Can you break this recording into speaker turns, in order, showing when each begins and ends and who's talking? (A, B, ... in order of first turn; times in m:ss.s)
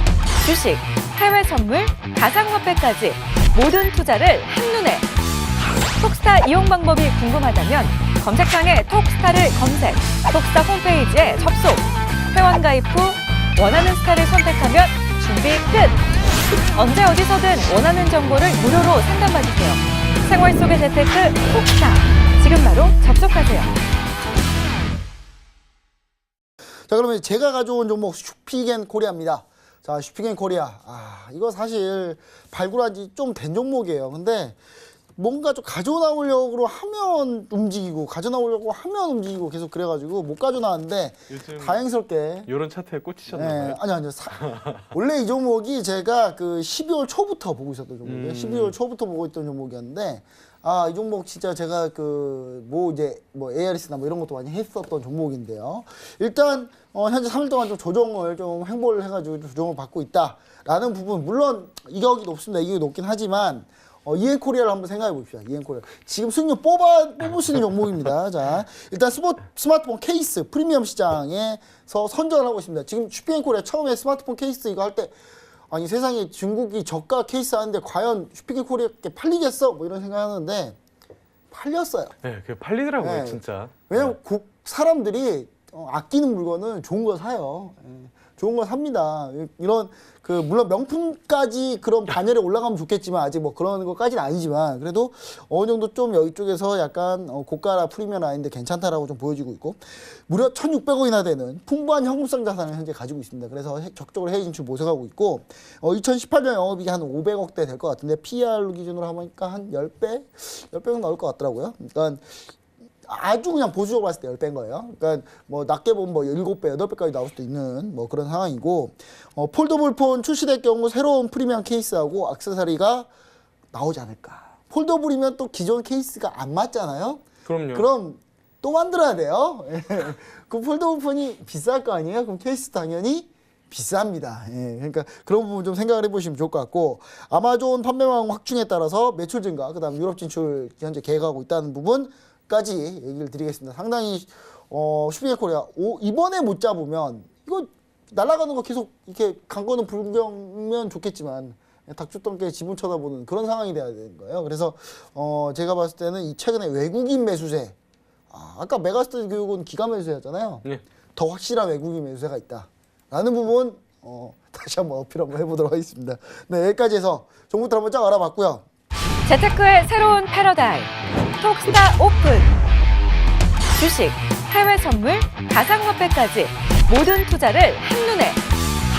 0:00.4-0:05.1 A
0:06.0-0:16.0 A
0:16.7-0:23.7 A
0:26.9-0:34.6 B
0:35.2-0:42.5 B
0:41.3-0:41.8 C
0:42.4-0:43.8 C
0:43.3-1:15.1 B
0:44.4-0:44.8 C
0:48.0-0:48.8 C
1:15.7-1:20.8 B
1:21.5-1:22.2 B
1:22.2-1:24.1 C
1:23.0-1:52.2 B
1:53.0-2:03.1 B
2:03.7-2:37.8 B
2:07.4-2:07.9 C
2:38.3-2:48.6 B
2:49.2-2:52.5 A
2:53.7-2:58.4 A